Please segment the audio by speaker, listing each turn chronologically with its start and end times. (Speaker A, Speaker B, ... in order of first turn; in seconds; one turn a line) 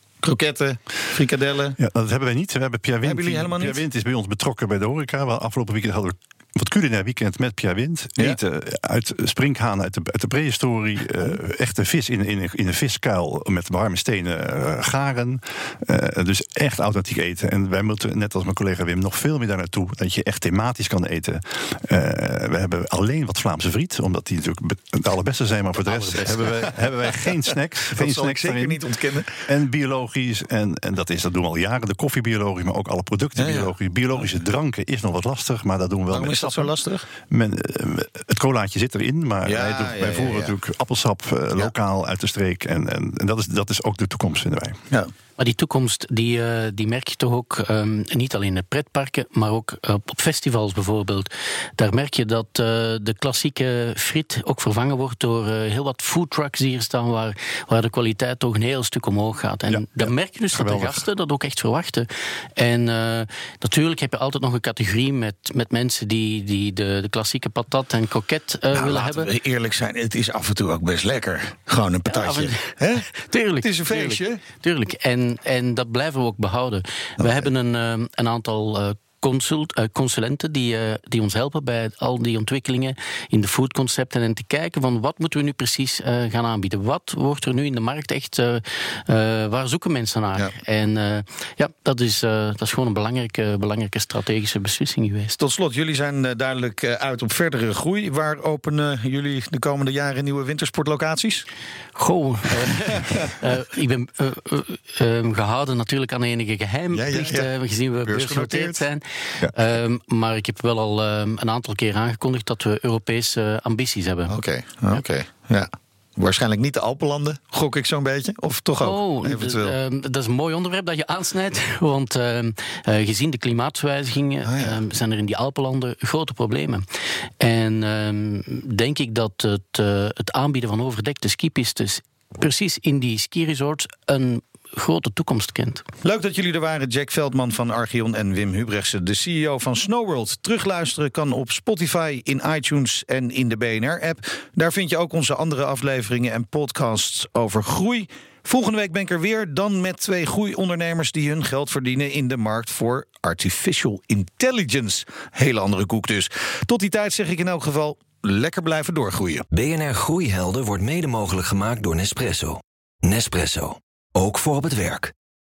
Speaker A: 0.2-1.8
Speaker B: 1.8-28.8
Speaker A: 3.0-3.8
Speaker A: 26.0-26.5
Speaker A: 27.9-29.4
Speaker B: 29.5-36.7
Speaker A: 33.4-33.7
Speaker A: 36.1-37.1
Speaker B: 37.2-44.8
Speaker A: 39.5-40.5
Speaker C: 45.4-69.3
Speaker B: 59.7-61.0
Speaker A: 68.7-73.1
Speaker C: 72.1-95.4
Speaker A: 73.6-74.4
Speaker A: 77.2-77.5
Speaker A: 95.4-101.5
Speaker C: 102.0-114.4
Speaker A: 106.9-107.5
Speaker A: 108.0-108.8
Speaker A: 114.3-119.7
Speaker C: 118.8-126.8
Speaker A: 124.5-124.8
Speaker C: 127.4-135.8
Speaker A: 136.0-159.4
Speaker D: 159.5-165.1